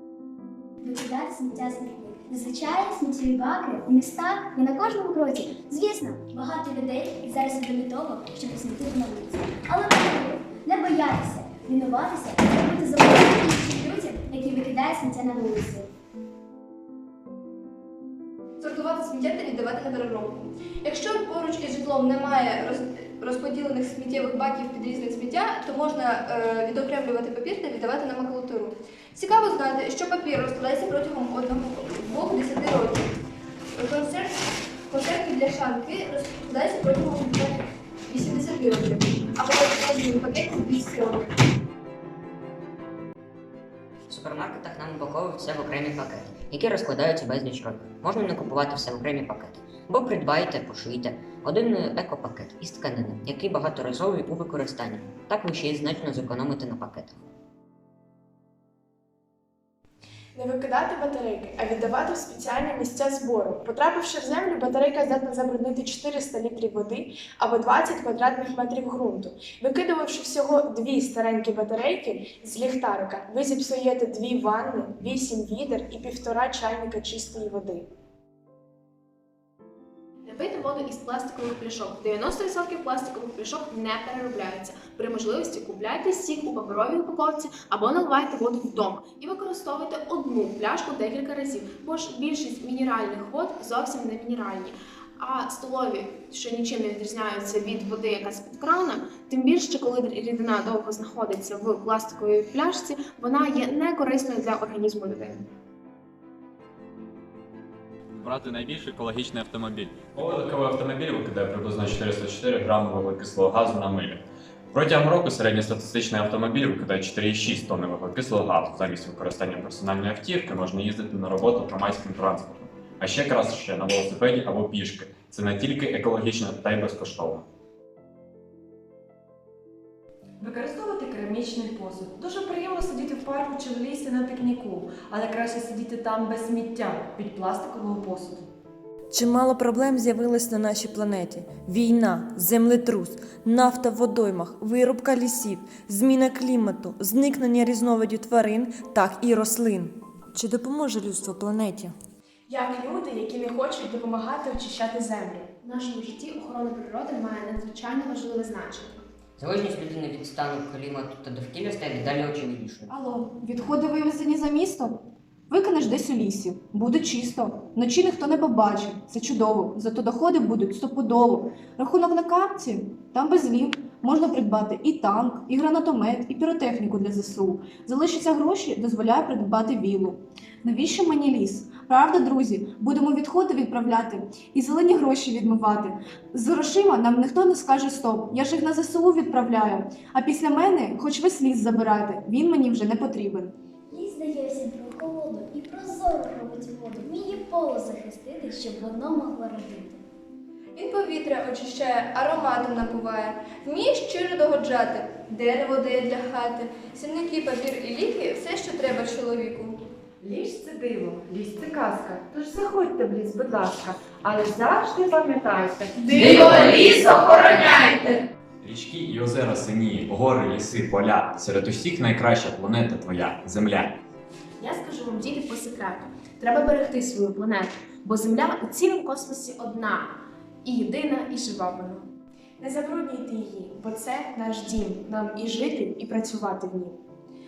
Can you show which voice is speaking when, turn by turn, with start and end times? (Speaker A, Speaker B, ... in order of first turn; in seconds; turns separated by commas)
Speaker A: 0.8-15.9, Speaker B: 18.6-33.1, Speaker B: 33.8-41.3, Speaker C: 44.1-57.2, Speaker D: 60.3-77.9, Speaker E: 80.3-105.4, Speaker F: 108.2-127.5, Speaker G: 130.4-138.5, Speaker G: 139.1-151.9, Speaker D: 152.5-155.6, Speaker E: 155.6-159.0, Speaker C: 159.4-162.9, Speaker H: 162.9-165.0, Speaker H: 165.5-193.5, Speaker A: 193.9-200.0, Speaker B: 200.8-209.8, Speaker G: 210.2-218.2, Speaker E: 216.4-216.8, Speaker F: 218.6-224.0, Speaker E: 224.6-232.1, Speaker D: 232.6-234.4, Speaker E: 233.3-233.7, Speaker E: 234.4-235.6, Speaker D: 235.0-237.0